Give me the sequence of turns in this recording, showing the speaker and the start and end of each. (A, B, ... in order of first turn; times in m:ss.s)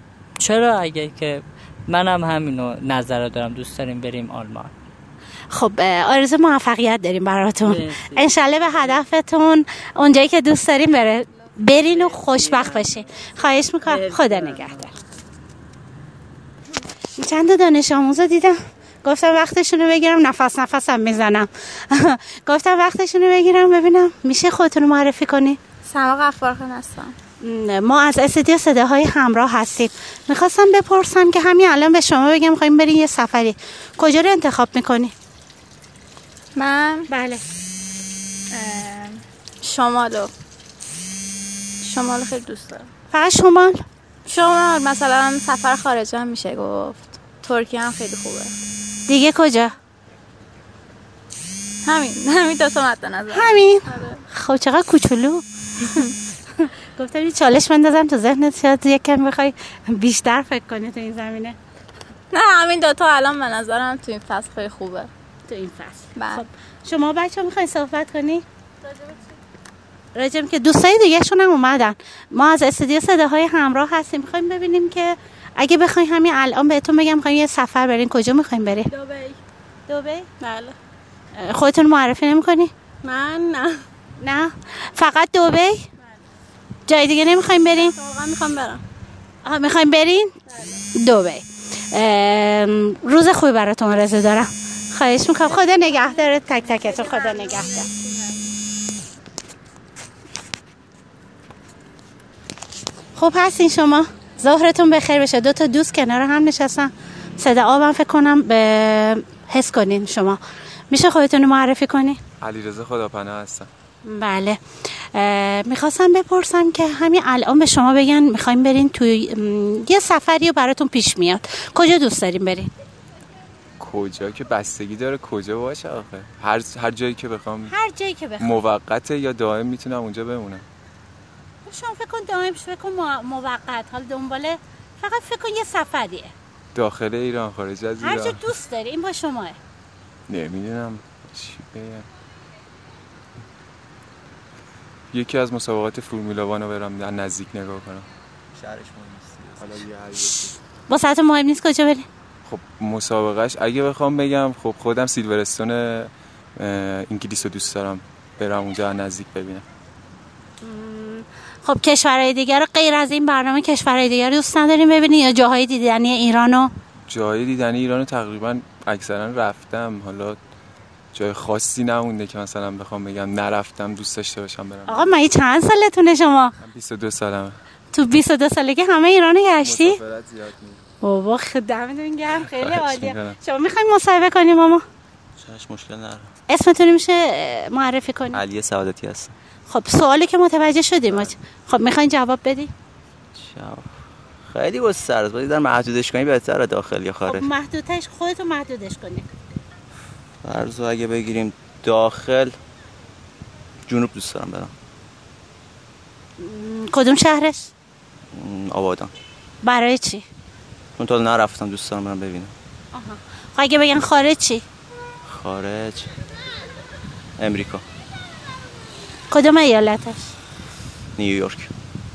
0:00.4-0:04.7 A
0:05.5-0:14.9 B
0:07.6-0:09.0 A
0:11.8-0:14.9 A
0:17.2-0:25.6 B
0:25.8-0:27.1 C
0:27.4-0:35.1 B
0:36.6-0:37.1 C
0:37.1-0:37.4 B
0:38.5-0:40.3 C
0:41.8-0:42.9 C
0:43.1-0:43.8 B
0:44.2-0:48.5 C
0:49.1-0:49.7 B
0:51.8-0:54.2 C
0:53.3-0:56.0 B
0:56.6-1:01.6 B
1:02.3-1:05.1 C
1:05.5-1:08.4 B
1:06.2-1:06.4 C
1:10.1-1:18.9 B
1:18.8-1:19.4 C
1:19.9-1:20.3 B
1:20.4-1:20.8 C
1:21.4-1:22.7 B
1:23.0-1:23.8 C
1:24.2-1:25.8 B
1:26.9-1:27.9 B
1:27.6-1:28.8 C
1:29.4-1:30.3 B
1:30.5-1:30.8 C
1:30.9-1:37.9 B
1:35.4-1:38.5 C
1:43.2-1:50.4 B
1:50.9-1:52.2 B
1:52.4-1:53.7 D
1:54.0-1:54.6 B
1:55.1-2:02.7 B
2:03.8-2:07.7 D
2:07.7-2:08.6 B
2:08.4-2:10.6 D
2:11.6-2:16.3 B
2:16.7-2:18.4 D
2:18.0-2:19.6 B
2:20.3-2:22.0 D
2:25.1-2:28.0 D
2:28.6-2:29.8 E
2:29.6-2:30.4 D
2:30.9-2:32.0 B
2:32.4-2:39.6 D
2:40.6-2:46.7 B
2:47.1-2:50.4 D
2:51.1-2:55.1 D
2:54.9-2:56.5 B
2:56.6-2:57.5 D
2:57.9-3:00.0 B
2:59.6-3:00.8 D
3:01.0-3:04.8 B
3:02.4-3:03.4 D
3:05.4-3:06.3 E
3:06.5-3:08.4 B
3:08.3-3:09.3 E
3:09.7-3:12.7 B
3:13.4-3:13.9 E
3:14.4-3:17.5 E
3:17.2-3:19.2 B
3:20.4-3:22.5 E
3:23.9-3:24.7 E
3:26.4-3:27.7 B
3:28.3-3:29.1 E
3:29.6-3:30.2 B
3:31.0-3:32.5 E
3:32.9-3:34.6 B
3:35.2-3:36.1 E
3:37.4-3:37.8 E
3:39.3-3:40.3 B
3:41.2-3:41.7 E